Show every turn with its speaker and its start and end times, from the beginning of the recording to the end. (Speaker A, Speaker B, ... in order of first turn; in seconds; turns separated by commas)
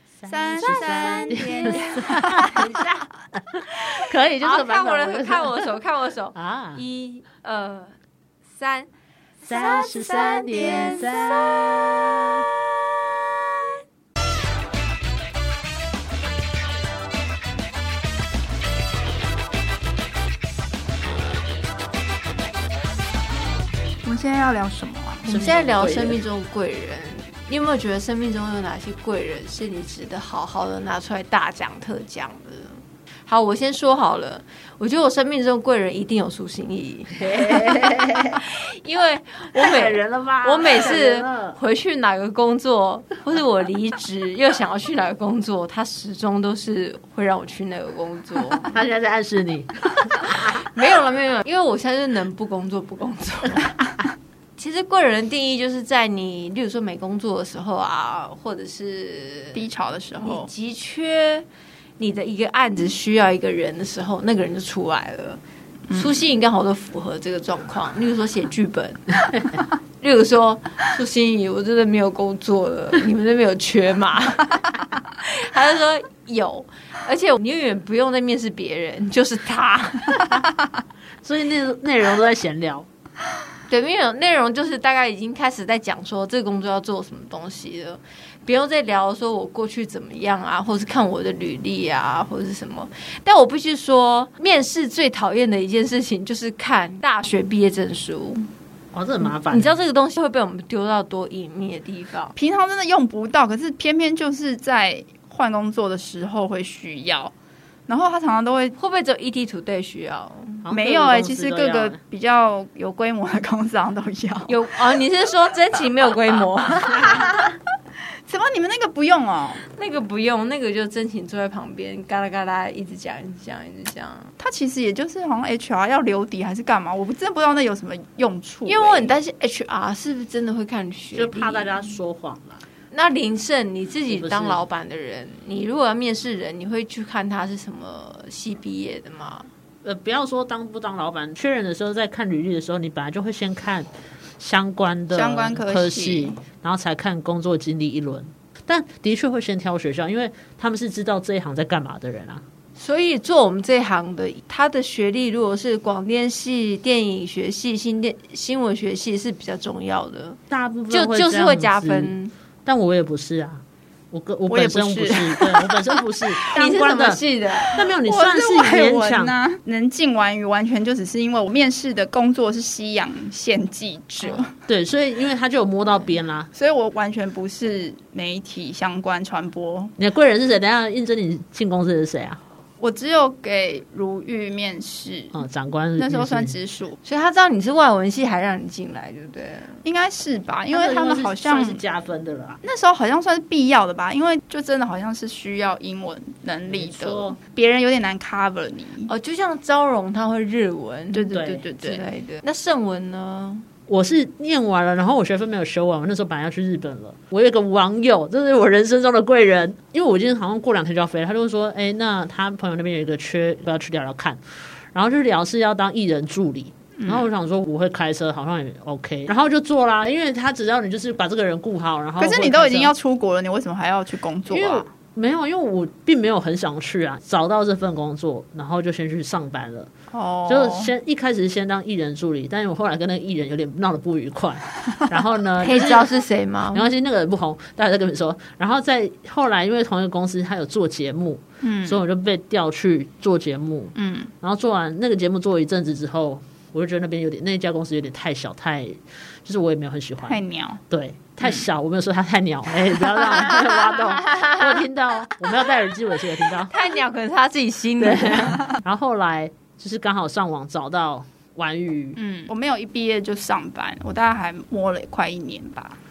Speaker A: 0.2-5.7, Speaker B: 0.3-2.6, Speaker C: 0.6-2.6, Speaker C: 4.4-7.9, Speaker A: 6.3-6.8, Speaker C: 8.5-8.9, Speaker C: 9.4-12.5, Speaker A: 9.4-12.5, Speaker B: 9.5-11.2, Speaker B: 24.0-25.3, Speaker A: 25.2-26.2, Speaker C: 25.2-37.8, Speaker A: 37.2-38.4, Speaker C: 38.4-48.7, Speaker A: 39.6-41.6, Speaker A: 48.6-50.6, Speaker C: 50.4-53.7, Speaker C: 54.6-59.7, Speaker B: 59.5-60.5, Speaker C: 60.2-61.5, Speaker C: 62.0-65.4, Speaker B: 65.9-66.3, Speaker C: 65.9-69.2, Speaker C: 70.0-74.6, Speaker C: 75.2-80.2, Speaker A: 80.2-80.5, Speaker A: 81.2-82.9, Speaker C: 83.7-98.5, Speaker A: 98.9-99.7, Speaker C: 99.3-102.3, Speaker B: 102.3-107.3, Speaker B: 107.9-108.8, Speaker C: 108.7-110.7, Speaker A: 110.6-112.0, Speaker B: 110.7-114.5, Speaker C: 114.5-117.3, Speaker B: 117.0-117.4, Speaker B: 118.3-119.6, Speaker C: 119.7-124.3, Speaker B: 124.4-129.2, Speaker C: 128.7-131.9, Speaker A: 131.1-132.6, Speaker C: 132.9-139.5, Speaker A: 134.1-134.7, Speaker A: 139.8-152.4, Speaker B: 145.1-146.4, Speaker C: 152.8-160.4, Speaker A: 160.5-162.1, Speaker C: 160.9-162.3, Speaker A: 162.7-167.2, Speaker B: 164.5-165.8, Speaker B: 166.4-166.9, Speaker C: 166.5-167.8, Speaker B: 167.6-174.5, Speaker A: 167.7-169.3, Speaker A: 174.7-176.5, Speaker B: 176.5-179.9, Speaker A: 180.0-182.4, Speaker B: 182.8-185.4, Speaker A: 185.3-186.6, Speaker B: 186.0-187.0, Speaker C: 187.0-189.8, Speaker B: 189.8-191.8, Speaker A: 190.7-192.6, Speaker B: 192.6-199.1, Speaker A: 196.7-197.4, Speaker C: 199.1-203.6, Speaker B: 201.1-202.1, Speaker A: 201.3-201.7, Speaker A: 203.9-214.4, Speaker A: 214.9-222.9, Speaker B: 217.0-217.3, Speaker B: 222.2-224.9, Speaker A: 224.5-229.9, Speaker B: 230.1-230.9, Speaker A: 230.5-236.2, Speaker C: 235.6-236.8, Speaker A: 236.7-256.7, Speaker B: 241.6-242.0, Speaker B: 243.9-244.3, Speaker B: 250.3-250.8, Speaker C: 256.7-258.6, Speaker A: 258.0-262.2, Speaker B: 262.1-266.0